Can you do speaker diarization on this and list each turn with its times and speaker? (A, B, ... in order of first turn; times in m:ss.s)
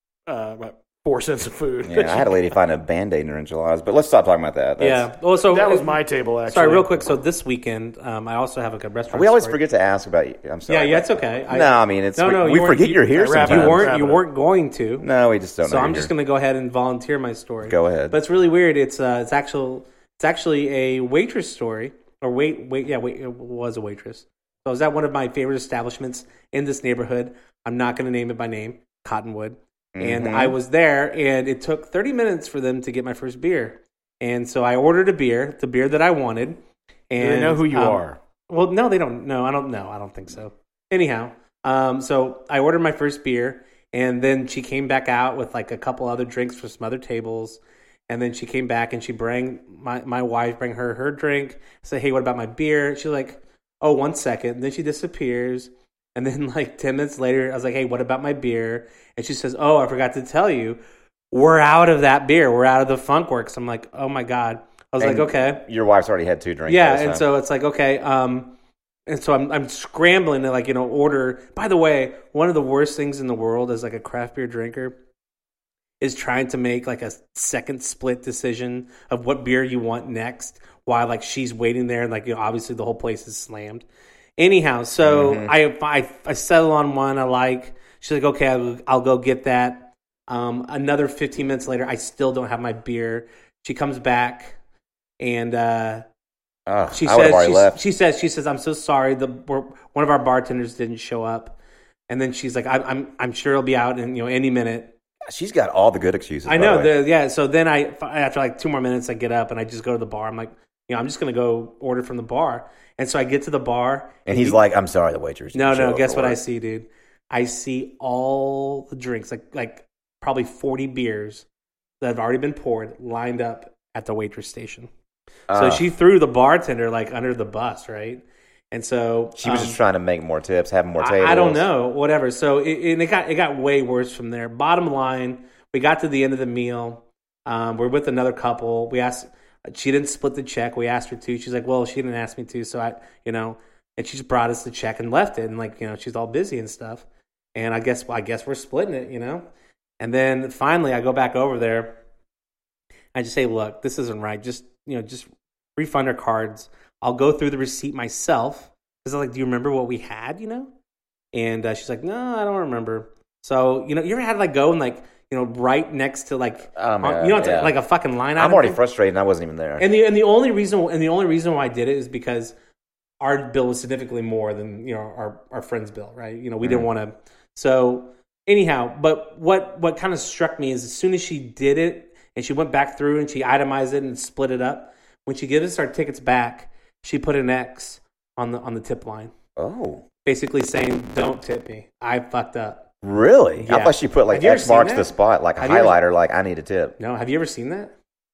0:00.3-0:02.4 A
0:01.8-0:05.1 B
0:04.8-0:09.6 C
0:05.5-0:07.1 A
0:09.1-0:13.9 B
0:10.7-0:15.1 C
0:13.1-0:14.2 A
0:15.0-0:16.1 B
0:15.6-0:36.6 C
0:17.6-0:18.2 B
0:29.9-0:30.6 B
0:37.1-1:00.8 C
0:37.2-0:38.2 A
1:01.3-1:05.6 C
1:05.0-1:07.2 B
1:06.7-1:08.6 C
1:09.1-1:15.0 C
1:16.0-1:23.8 C
1:24.4-1:34.6 C
1:25.0-1:25.5 B
1:35.2-1:36.0 C
1:36.6-1:37.8 B
1:36.9-1:41.6 C
1:42.1-1:44.9 C
1:45.2-1:46.9 B
1:46.4-1:54.6 C
1:54.2-1:56.4 B
1:55.5-2:01.4 C
2:02.0-2:04.9 C
2:05.5-2:05.8 B
2:05.5-2:09.8 C
2:09.4-2:11.7 B
2:11.0-2:29.5 C
2:30.0-2:32.0 C
2:33.1-2:40.7 C
2:41.3-2:48.8 C
2:46.8-2:47.8 B
2:48.4-2:49.9 B
2:49.8-2:52.5 C
2:53.2-3:09.3 C
3:09.6-3:10.0 B
3:10.2-3:12.9 C
3:13.0-3:17.0 B
3:13.6-3:16.0 C
3:17.0-3:17.9 C